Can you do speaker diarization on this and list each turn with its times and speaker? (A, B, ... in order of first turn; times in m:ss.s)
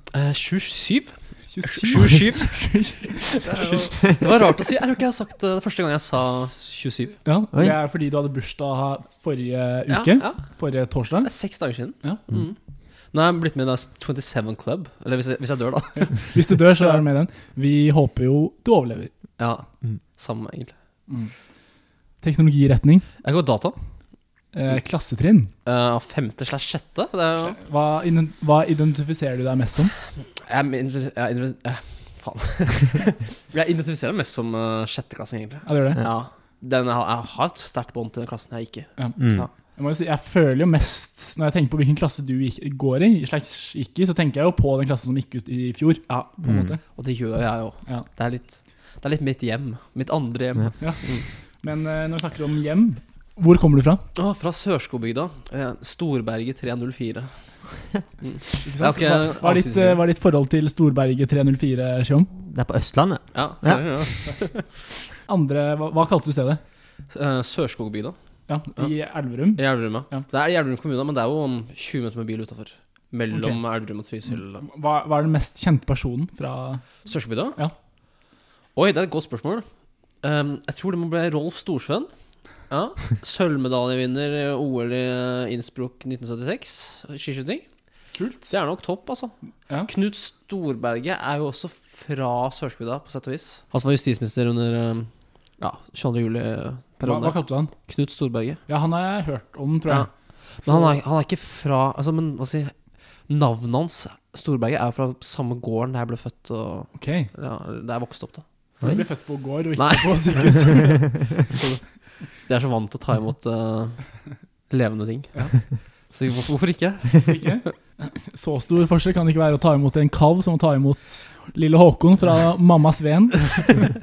0:00.1-0:07.2 A
0:01.5-0:04.0 B
0:07.2-0:12.3 B
0:09.9-0:16.9 A
0:15.9-0:19.1 B
0:19.4-0:20.7 A
0:21.1-0:21.6 B
0:22.2-0:23.2 B
0:23.2-0:23.8 A
0:24.5-0:25.5 B
0:25.6-0:27.6 A
0:27.4-0:30.0 B
0:30.3-0:39.5 A
0:35.6-0:36.0 B
0:39.0-0:46.8 B
0:39.2-0:39.5 C
0:46.1-0:51.3 A
0:46.4-0:46.7 C
0:50.8-0:54.0 B
0:54.1-1:00.0 A
0:58.6-1:02.3 B
1:02.4-1:04.3 C
1:03.3-1:04.6 A
1:05.3-1:06.6 B
1:07.1-1:14.6 A
1:08.5-1:10.3 B
1:13.3-1:17.8 B
1:17.0-1:17.7 A
1:18.7-1:38.6 A
1:28.1-1:28.5 B
1:37.0-1:37.8 B
1:38.6-1:41.0 B
1:39.9-1:48.7 A
1:46.9-1:47.3 B
1:48.8-1:51.2 B
1:49.8-1:57.7 A
1:55.3-1:55.6 B
1:57.2-2:03.8 B